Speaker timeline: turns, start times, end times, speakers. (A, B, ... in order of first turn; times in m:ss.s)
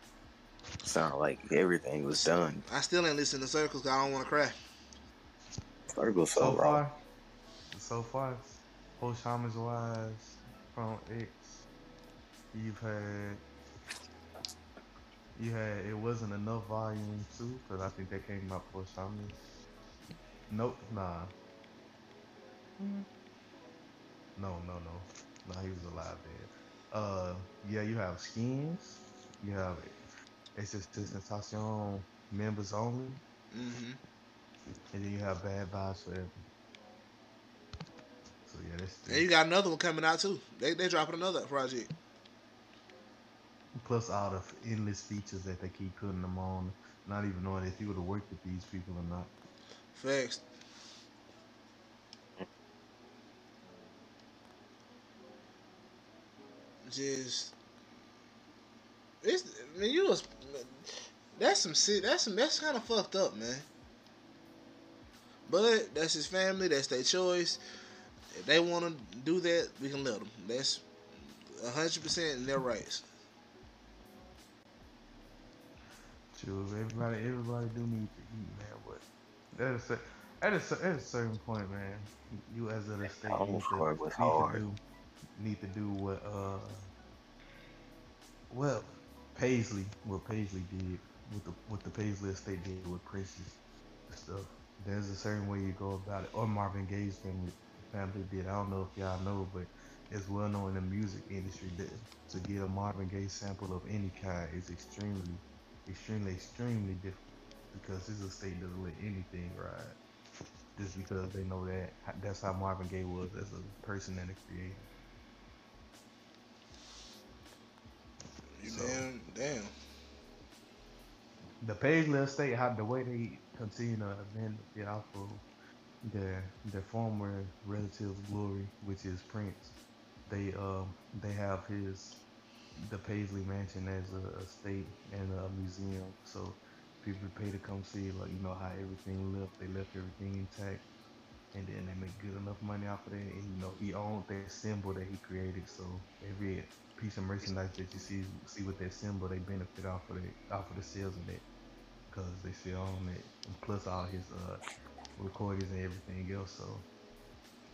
0:00.8-0:02.6 A
0:02.1-0:04.6 B
0:05.9-0:06.8 A
0:06.4-0:06.9 C
0:07.7-0:11.6 C
0:12.5-0:13.4 C
0:15.4-0:19.4 C
0:20.5-0:21.3 C
0:22.8-0:23.1 C
0:24.4-0:29.9 C
0:30.6-0:33.2 C
0:33.5-0:34.0 B
0:34.9-0:36.3 C
0:38.4-0:39.3 C
0:39.1-0:41.9 B
0:43.8-0:49.3 C
0:49.9-0:50.4 B
0:56.8-0:57.5 B
0:59.2-1:03.7 B
1:05.5-1:07.6 B
1:08.3-1:10.8 B
1:11.6-1:13.0 B
1:16.3-1:19.0 C
1:19.5-1:24.8 C
1:23.1-1:24.6 A
1:25.4-1:26.8 C
1:28.5-1:50.0 C
1:50.8-1:54.9 C
1:58.6-1:59.7 B
1:58.6-1:59.1 C
2:01.6-2:05.4 C
2:06.0-2:12.2 C
2:12.8-2:20.8 C
2:21.5-2:31.4 C
2:32.1-2:34.6 C
2:35.2-2:36.8 C